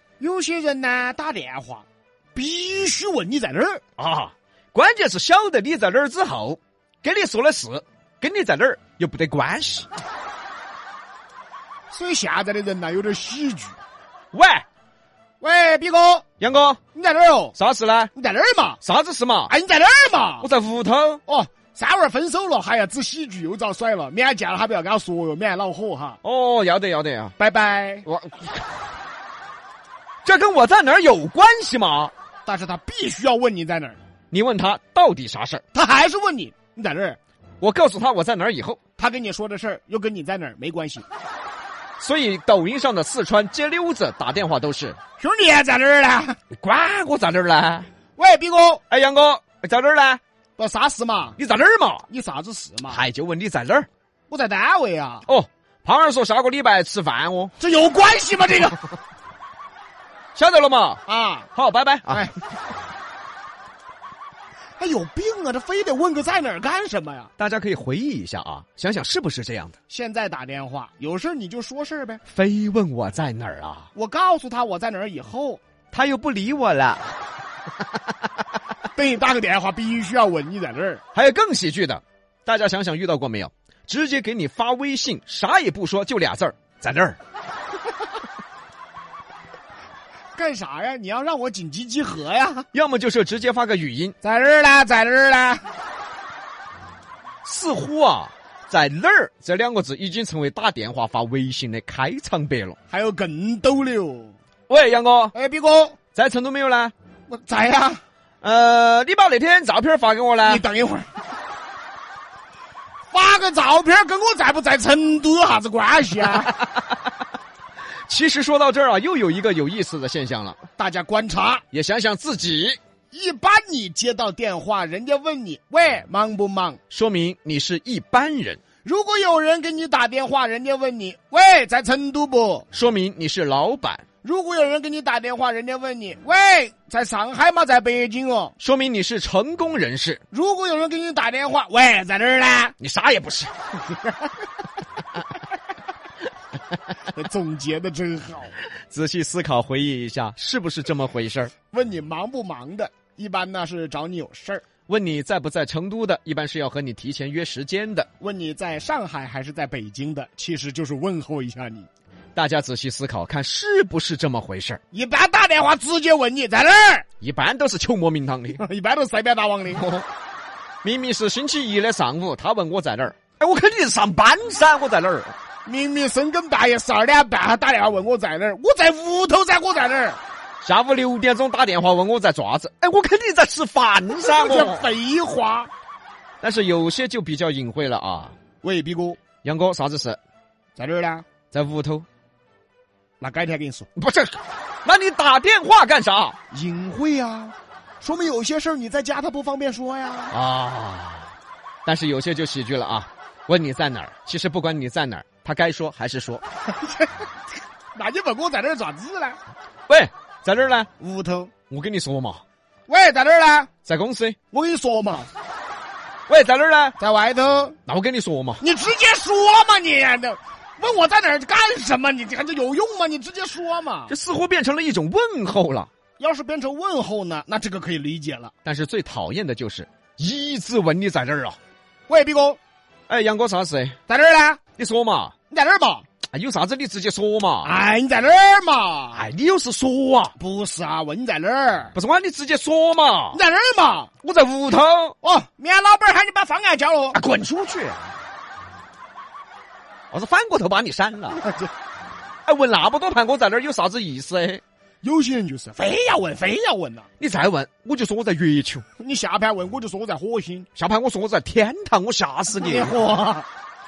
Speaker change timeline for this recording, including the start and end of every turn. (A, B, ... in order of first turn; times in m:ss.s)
0:00.2-0:03.8 A
0:04.0-0:09.9 B
0:11.9-0:13.8 A
0:14.3-0:14.6 B
0:15.4-0:16.2 A
0:16.4-0:16.8 B
0:17.0-0:17.6 A
0:17.6-0:18.1 B
0:18.1-0:18.8 A
0:18.8-0:19.5 B
0:19.5-0:20.5 A
0:20.4-0:21.2 B
0:21.3-0:26.2 A
0:26.2-0:27.4 B
0:27.4-0:28.1 A
0:28.0-0:28.6 B
0:30.2-0:32.1 B
0:32.4-0:34.0 A
0:34.3-0:35.6 B
0:35.7-0:37.2 A
0:37.6-0:38.8 B
0:39.0-0:41.0 A
0:42.0-0:45.0 B
0:45.2-0:46.4 A
0:46.6-0:47.9 B
0:48.2-0:48.8 A
0:48.9-0:50.2 B
0:50.6-0:51.4 A
0:51.4-0:52.0 B
0:52.1-0:53.0 A
0:52.9-0:53.9 B
0:54.3-0:55.3 A
0:55.3-0:57.5 B
0:57.6-0:58.8 A
1:00.3-1:01.0 B
1:01.1-1:01.5 A
1:01.6-1:02.3 B
1:02.1-1:02.3 A
1:04.8-1:07.3 A
1:07.4-1:09.8 B
1:09.9-1:12.2 A
1:12.3-1:13.9 B
1:14.0-1:15.6 A
1:15.9-1:17.1 B
1:19.0-1:21.0 A
1:21.1-1:27.2 B
1:30.3-1:32.7 A
1:32.7-1:34.2 B
1:34.2-1:35.6 A
1:37.4-1:42.8 B
1:42.9-1:44.3 A
1:44.7-1:45.3 B
1:45.3-1:46.0 A
1:46.1-1:46.9 B
1:47.3-1:48.0 A
1:48.4-1:50.6 B
1:50.4-1:51.1 A
1:53.1-1:56.5 A
1:56.4-1:56.8 B
1:58.1-2:00.6 B
2:00.8-2:01.6 A
2:01.7-2:02.8 B
2:03.1-2:06.8 A
2:06.9-2:08.6 B
2:08.8-2:12.7 A
2:12.7-2:14.0 B
2:14.2-2:18.5 A
2:18.6-2:20.2 B
2:20.3-2:22.7 A
2:22.8-2:23.5 B
2:27.1-2:28.5 A
2:28.9-2:31.5 B
2:31.7-2:34.6 A
2:34.9-2:38.1 B
2:38.2-2:41.9 A
2:42.4-2:44.8 B
2:44.9-2:47.0 A
2:47.2-2:48.6 B
2:48.6-2:49.8 A
2:49.7-2:50.0 B
2:50.8-2:55.3 B
2:55.6-3:00.2 A
3:00.6-3:04.8 B
3:04.2-3:05.7 A
3:06.4-3:08.4 B
3:08.6-3:09.2 A
3:09.4-3:10.2 B
3:10.8-3:11.2 A
3:11.5-3:12.0 B
3:13.2-3:13.9 A
3:14.0-3:16.4 B
3:16.5-3:20.3 A
3:20.3-3:21.3 B
3:21.8-3:26.4 B
3:26.8-3:27.2 A
3:27.9-3:29.4 A
3:29.9-3:30.9 B
3:31.0-3:31.5 A
3:31.7-3:32.4 B
3:32.9-3:33.7 A
3:33.8-3:34.4 B
3:34.5-3:35.3 A
3:36.3-3:37.0 B
3:37.0-3:37.8 A
3:37.9-3:38.6 B
3:38.6-3:44.1 A
3:44.1-3:45.9 B
3:46.2-3:48.5 A
3:48.6-3:51.6 B
3:52.1-3:52.6 A
3:53.1-3:54.0 B
3:54.1-3:54.6 A
3:54.8-3:55.3 B
3:55.5-3:56.0 A
3:56.3-3:57.7 B
3:57.6-3:59.2 A
3:59.1-4:00.3 B
4:00.4-4:01.9 A
4:01.9-4:03.4 B
4:03.3-4:04.1 A
4:04.2-4:05.1 B
4:05.2-4:07.2 A
4:07.1-4:08.1 B
4:10.1-4:11.4 B
4:11.3-4:11.7 A
4:12.4-4:14.6 B
4:15.0-4:17.1 A
4:17.2-4:18.8 B
4:19.0-4:20.7 A
4:20.8-4:22.9 B
4:22.6-4:23.4 A